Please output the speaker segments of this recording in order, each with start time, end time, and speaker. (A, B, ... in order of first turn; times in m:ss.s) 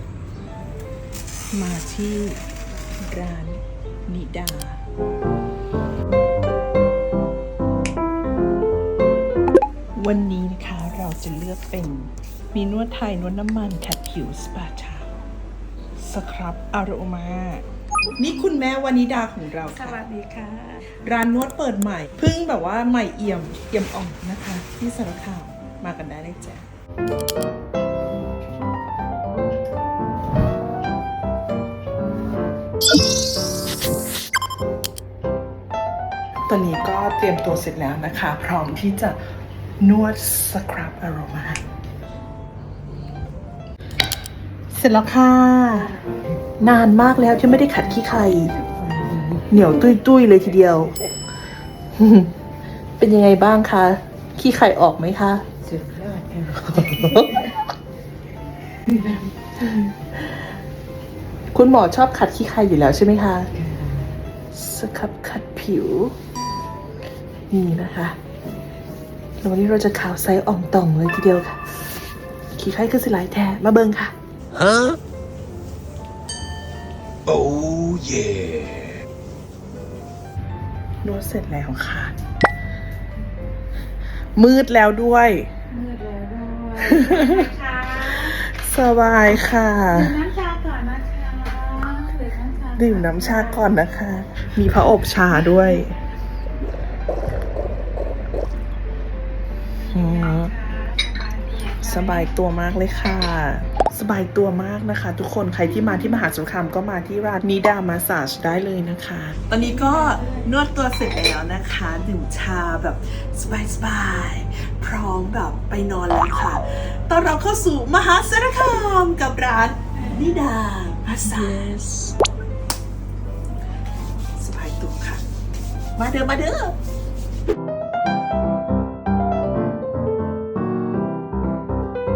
0:01.5-0:02.4 A
0:03.0-0:04.8 A
0:10.0-0:15.2 A
0:16.0-0:17.6 A
0:18.2-0:20.0 A
0:20.0-0:20.8 B
0:20.9-0:26.6 A
0:36.5-0:39.2 A
0:39.8-0:41.6 A
0:44.7-0:45.9 A
0:46.6-0:51.0 A
0:52.0-0:52.4 A
0:53.0-0:57.6 A
0:58.9-1:00.0 A
1:01.5-1:03.5 A
1:04.5-1:06.2 A
1:07.5-1:08.2 A
1:09.4-1:11.8 A
1:12.6-1:14.1 A
1:14.6-1:15.0 C
1:17.3-1:19.0 C
1:21.0-1:22.1 A
1:24.4-1:25.5 A
1:25.7-1:28.2 B
1:26.8-1:30.2 A
1:30.0-1:33.6 B
1:32.8-1:36.0 A
1:39.9-1:40.6 A
1:40.0-1:42.3 B
1:41.7-2:02.2 A
1:49.9-1:50.4 B
2:04.4-2:05.2 A
2:06.0-2:06.8 A